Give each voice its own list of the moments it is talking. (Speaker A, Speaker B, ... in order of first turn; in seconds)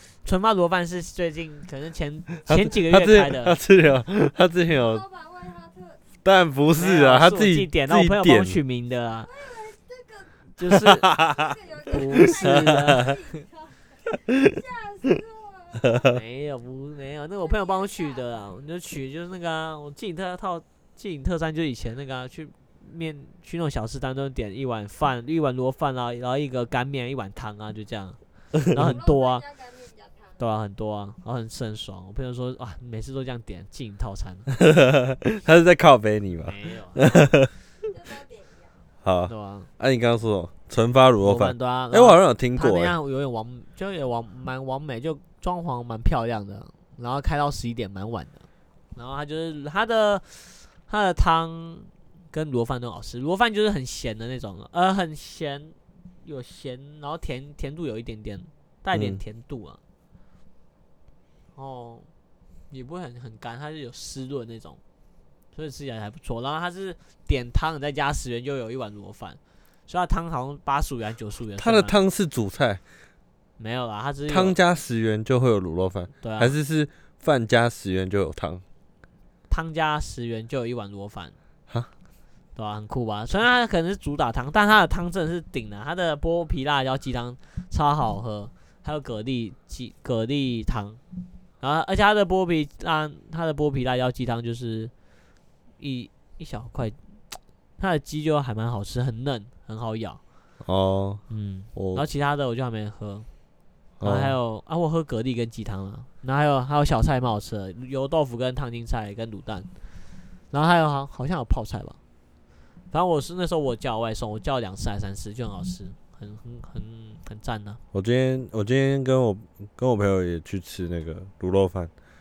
Speaker A: 0.2-3.6, 6.8-9.3, 10.6-11.1, 11.9-13.1, 16.1-29.4, 30.4-34.5, 36.5-37.1, 39.3-39.7, 41.2-59.8, 61.5-62.1, 62.7-64.8, 65.5-72.0, 73.6-74.6, 76.2-76.6, 79.5-81.4, 82.5-91.0, 91.6-94.9, 95.8-97.2, 97.8-100.2, 101.3-103.3, 104.0-109.7, 110.5-112.0, 112.9-117.8
Speaker B: 2.5-5.0, 6.2-8.6, 11.0-11.4, 12.1-13.1, 34.5-37.5, 39.0-43.0, 58.9-59.2, 71.6-72.8, 74.3-78.6, 100.6-101.2, 101.8-102.0, 104.0-104.4, 117.9-121.9
Speaker C: 4.7-6.0, 9.2-10.5, 11.1-16.2, 17.4-18.3, 28.8-30.4, 37.8-38.8